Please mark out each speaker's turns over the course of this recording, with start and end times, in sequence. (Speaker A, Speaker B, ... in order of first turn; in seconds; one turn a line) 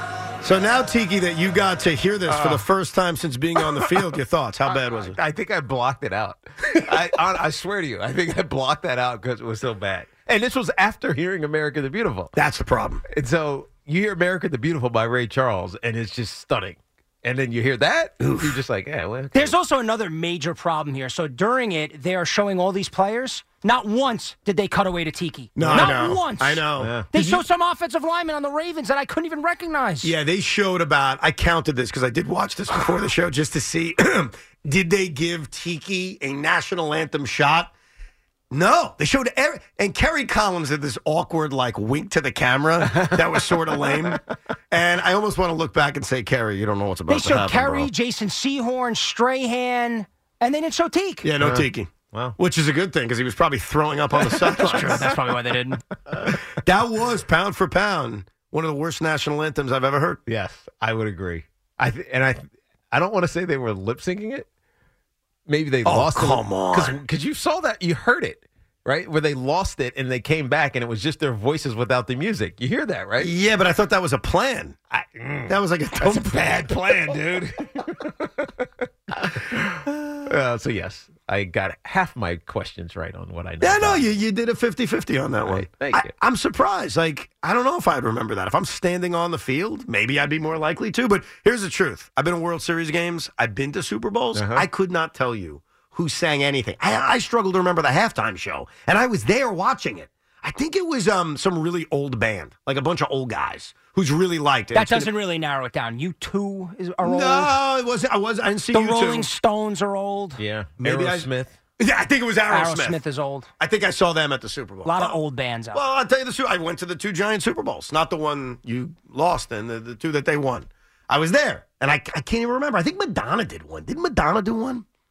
Speaker A: 0.4-5.2
Speaker B: 2.3-2.6
Speaker B: 3.5-4.0
Speaker B: 4.7-12.3
Speaker A: 12.3-13.0
Speaker B: 13.1-19.5
Speaker A: 18.2-18.6
Speaker C: 19.3-30.1
Speaker A: 25.6-27.3
Speaker B: 25.6-26.1
Speaker B: 26.8-27.1
Speaker A: 30.0-37.7
Speaker A: 38.5-47.9
Speaker B: 42.9-44.1
Speaker C: 47.1-51.3
Speaker A: 51.2-55.1
Speaker B: 51.4-52.4
Speaker B: 54.3-55.0
Speaker C: 54.6-55.8
Speaker A: 56.1-60.2
Speaker B: 60.3-64.5
Speaker B: 65.5-73.3
Speaker A: 65.8-67.0
Speaker A: 73.2-74.8
Speaker B: 74.9-84.1
Speaker A: 75.5-77.2
Speaker A: 83.6-105.1
Speaker B: 85.4-86.1
Speaker B: 94.3-94.7
Speaker C: 104.7-107.5
Speaker A: 107.0-109.3
Speaker C: 108.7-110.4
Speaker B: 110.4-111.5
Speaker A: 110.8-113.0
Speaker C: 112.5-113.5
Speaker A: 113.6-115.2
Speaker C: 114.8-115.8
Speaker A: 115.7-124.8